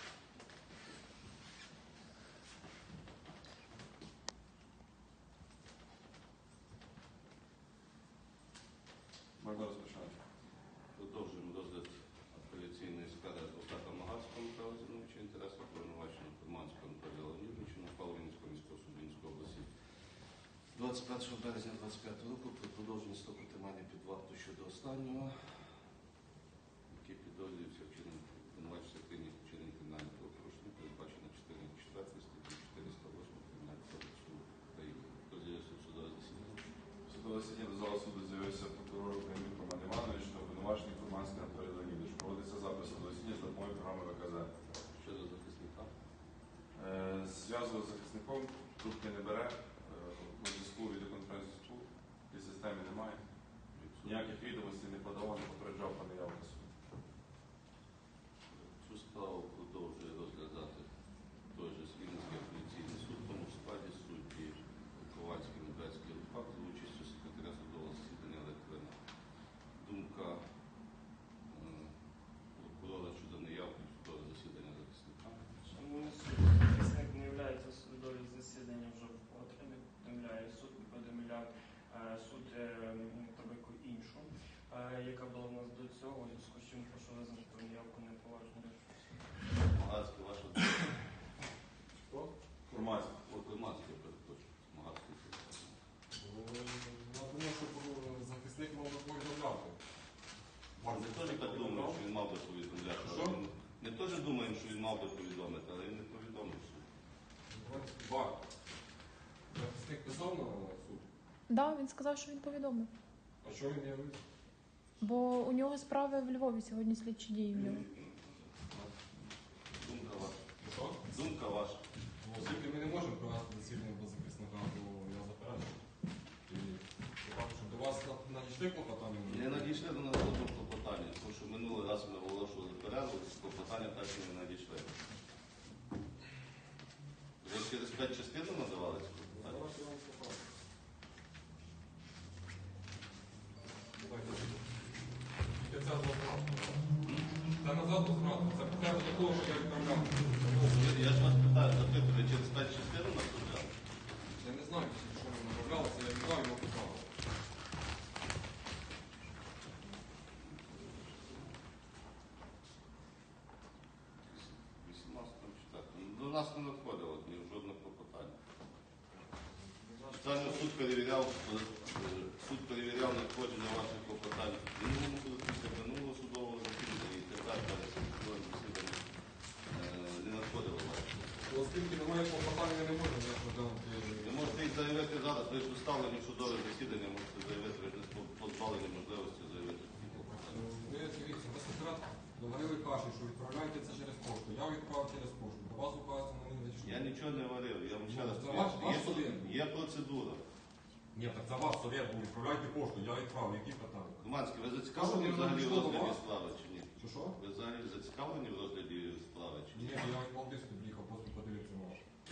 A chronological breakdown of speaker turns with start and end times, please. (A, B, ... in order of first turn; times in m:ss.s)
0:09.4-0:10.2 A
0:11.0-0:19.7 B
0:20.7-0:25.3 B
0:26.9-0:36.7 B
0:37.0-0:44.5 A
0:44.9-0:45.9 B
0:46.7-0:53.2 A
0:53.8-0:54.4 B
0:54.0-0:56.7 A
0:58.5-1:00.9 B
1:01.5-1:09.0 B
1:09.8-1:10.4 B
1:11.5-1:11.9 B
1:12.5-1:16.0 B
1:15.7-1:29.0 C
1:29.7-1:30.9 B
1:32.7-1:33.1 A
1:33.2-1:35.8 B
1:36.2-1:39.8 D
1:40.8-1:42.0 D
1:40.9-1:46.8 B
1:43.0-1:43.4 D
1:47.5-1:48.4 D
1:49.5-1:51.0 D
1:51.5-1:52.9 E
1:53.4-1:54.2 D
1:55.0-1:57.8 E
1:57.5-1:58.2 B
1:59.8-2:00.4 B
2:00.6-2:01.1 D
2:01.1-2:01.8 B
2:02.2-2:05.8 D
2:06.5-2:09.8 D
2:09.3-2:14.9 B
2:17.4-2:19.7 B
2:19.3-2:20.4 D
2:24.0-2:24.6 D
2:25.5-2:26.8 D
2:27.6-2:31.0 D
2:30.6-2:33.7 B
2:34.3-2:37.1 D
2:40.5-2:41.6 B
2:44.3-2:48.3 B
2:50.1-2:59.0 B
2:59.7-3:01.3 B
3:01.4-3:04.6 D
3:04.2-3:10.6 B
3:10.4-3:17.1 D
3:16.8-3:20.4 B
3:18.0-3:19.6 D
3:21.1-3:24.2 D
3:24.2-3:30.1 B
3:24.9-3:26.2 D
3:27.0-3:27.4 D
3:29.7-3:32.0 D